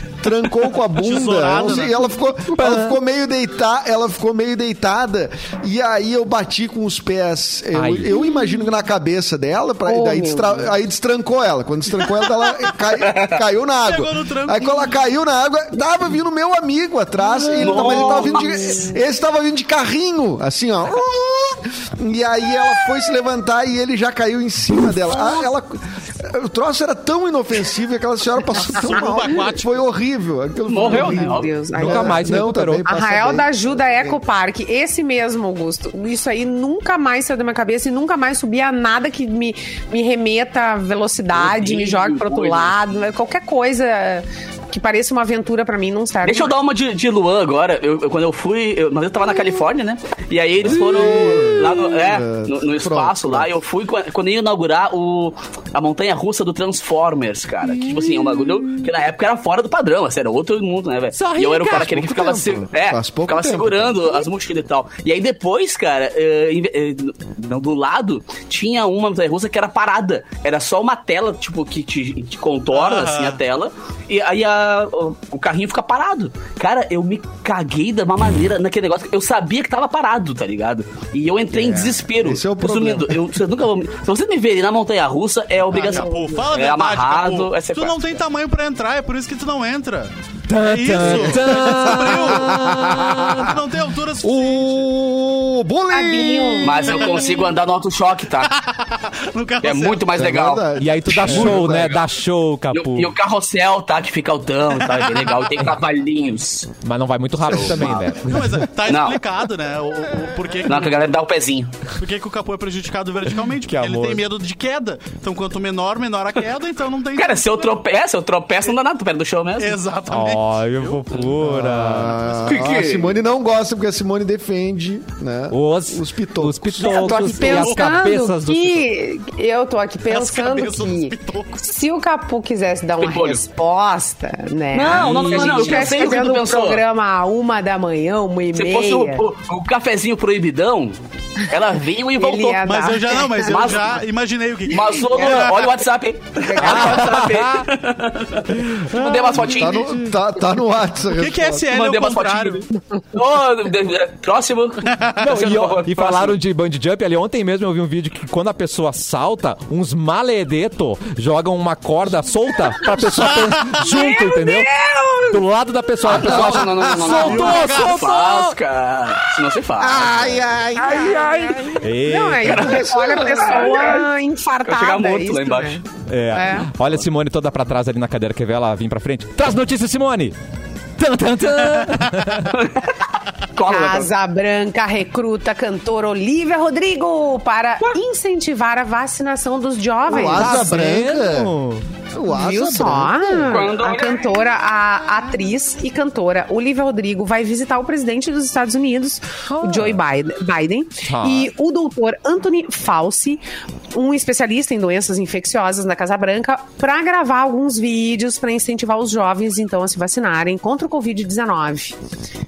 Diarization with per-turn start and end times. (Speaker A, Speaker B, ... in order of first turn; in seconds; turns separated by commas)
Speaker A: 0.2-34.2, Speaker B: 1.0-2.1, Speaker C: 2.5-2.9, Speaker C: 7.7-8.2, Speaker D: 9.8-10.8, Speaker E: 13.0-13.4, Speaker B: 13.8-15.0, Speaker E: 17.6-18.9, Speaker D: 17.8-18.9, Speaker B: 28.7-29.8, Speaker E: 30.7-31.6, Speaker D: 30.8-46.5, Speaker C: 31.7-32.9, Speaker E: 41.3-42.8, Speaker E: 46.2-88.0, Speaker A: 50.6-53.6, Speaker C: 57.7-58.9, Speaker C: 61.1-62.0, Speaker A: 61.7-64.2, Speaker B: 72.7-73.4, Speaker A: 81.5-83.3, Speaker B: 85.7-94.9, Speaker D: 85.8-86.4, Speaker C: 90.5-93.5, Speaker A: 91.0-93.5, Speaker A: 94.2-96.9, Speaker D: 95.9-97.4, Speaker E: 96.6-98.5, Speaker B: 96.9-97.3, Speaker B: 98.4-100.2, Speaker E: 99.6-100.7, Speaker A: 100.1-102.0, Speaker C: 100.8-103.1, Speaker E: 101.3-102.0, Speaker B: 101.3-101.6, Speaker E: 102.7-106.7, Speaker B: 104.8-105.3, Speaker C: 106.8-108.7, Speaker E: 107.4-108.0, Speaker A: 107.7-108.0, Speaker B: 108.2-111.1, Speaker E: 108.8-109.2, Speaker E: 110.7-111.7, Speaker B: 112.0-117.7, Speaker C: 113.6-114.2, Speaker E: 117.1-119.8, Speaker B: 119.6-121.4, Speaker C: 120.1-122.2, Speaker A: 121.4-127.5, Speaker B: 122.2-122.5, Speaker E: 122.4-123.2, Speaker C: 125.5-128.8, Speaker D: 126.8-139.2, Speaker B: 130.1-131.6, Speaker E: 133.0-133.4, Speaker E: 134.7-136.8, Speaker C: 134.8-135.9, Speaker E: 138.5-142.8, Speaker D: 142.2-143.8, Speaker B: 142.6-145.7, Speaker E: 143.3-144.0, Speaker E: 144.7-149.9, Speaker D: 145.2-145.5, Speaker D: 146.4-147.0, Speaker C: 146.6-147.7, Speaker C: 148.5-149.9, Speaker A: 149.5-151.7, Speaker B: 151.1-152.7, Speaker E: 151.7-156.4, Speaker B: 154.8-155.2, Speaker C: 155.2-164.7, Speaker B: 163.2-163.8, Speaker D: 163.8-165.4, Speaker C: 165.3-168.6, Speaker E: 166.0-170.4, Speaker B: 166.8-168.0, Speaker A: 169.8-171.4, Speaker D: 170.8-176.7, Speaker C: 170.9-173.0, Speaker E: 172.4-174.1, Speaker E: 174.6-175.8, Speaker C: 176.1-180.3, Speaker C: 181.0-182.6, Speaker E: 182.5-183.0, Speaker E: 183.5-184.1, Speaker D: 183.7-190.8, Speaker A: 190.1-191.5, Speaker C: 190.2-191.8, Speaker A: 192.1-193.6, Speaker D: 192.3-211.9, Speaker E: 193.5-194.3, Speaker C: 199.6-200.0, Speaker C: 201.0-201.5